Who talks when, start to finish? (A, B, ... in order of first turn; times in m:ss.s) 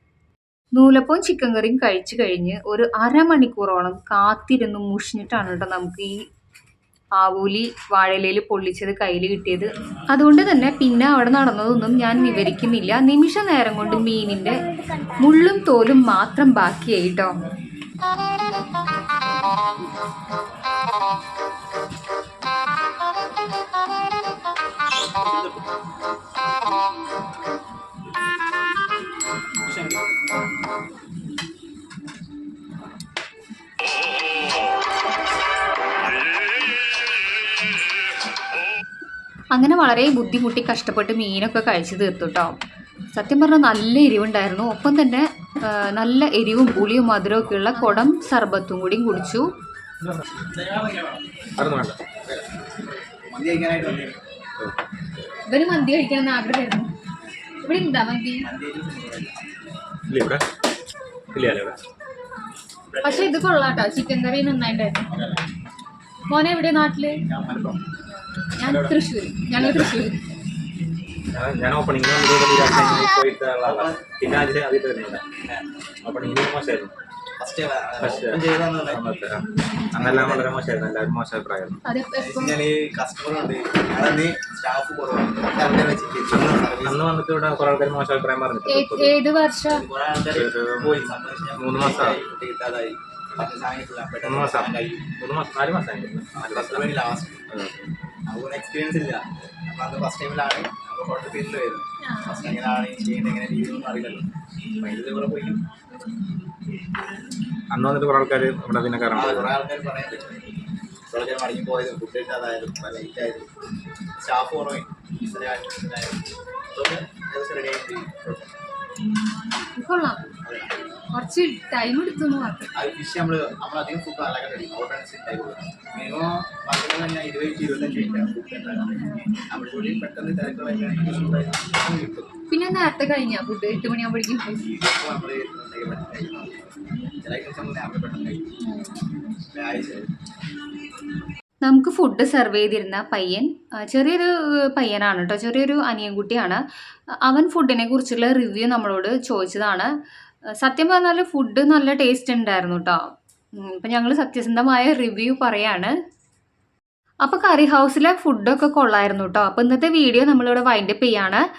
0:00.7-0:06.2 A
0:07.2-0:17.4 A
0:39.5-0:42.5 A
0:43.1-0:49.4 A
0:50.6-0:51.1 B
0:51.6-0:52.0 C
0:53.3-0:54.2 B
0:55.5-0:56.9 A
0:57.6-0:58.5 A
0:58.4-0:59.5 B
1:00.1-1:00.4 C
1:01.3-1:01.8 C
1:02.9-1:03.4 B
1:03.0-1:05.1 A
1:05.1-1:05.4 B
1:06.3-1:07.2 A
1:07.2-1:07.8 B
1:08.5-1:10.2 A
1:09.6-1:09.9 C
1:11.3-1:15.2 C
1:13.6-1:14.0 B
1:16.0-1:16.9 C
1:17.4-1:19.1 B
1:18.0-1:21.8 C
1:20.0-1:20.5 B
1:21.8-1:22.6 A
1:22.2-1:27.0 B
1:26.3-1:29.2 C
1:28.7-1:29.8 A
1:29.7-1:35.1 B
1:30.3-1:32.2 C
1:34.2-1:36.9 C
1:36.3-1:37.5 B
1:38.3-1:44.3 B
1:44.8-1:45.6 B
1:47.7-1:49.5 C
1:49.1-1:50.3 B
1:51.1-1:53.5 B
1:54.2-1:56.2 B
1:56.7-1:58.5 B
1:59.7-2:00.2 A
2:00.4-2:00.7 B
2:01.1-2:02.7 A
2:02.8-2:12.3 B
2:12.5-2:14.6 A
2:14.6-2:16.6 B
2:17.2-2:18.5 B
2:19.5-2:20.1 B
2:21.6-2:26.6 A
2:27.2-2:29.9 A
2:30.6-2:33.0 A
2:33.6-2:35.9 A
2:37.2-2:41.4 A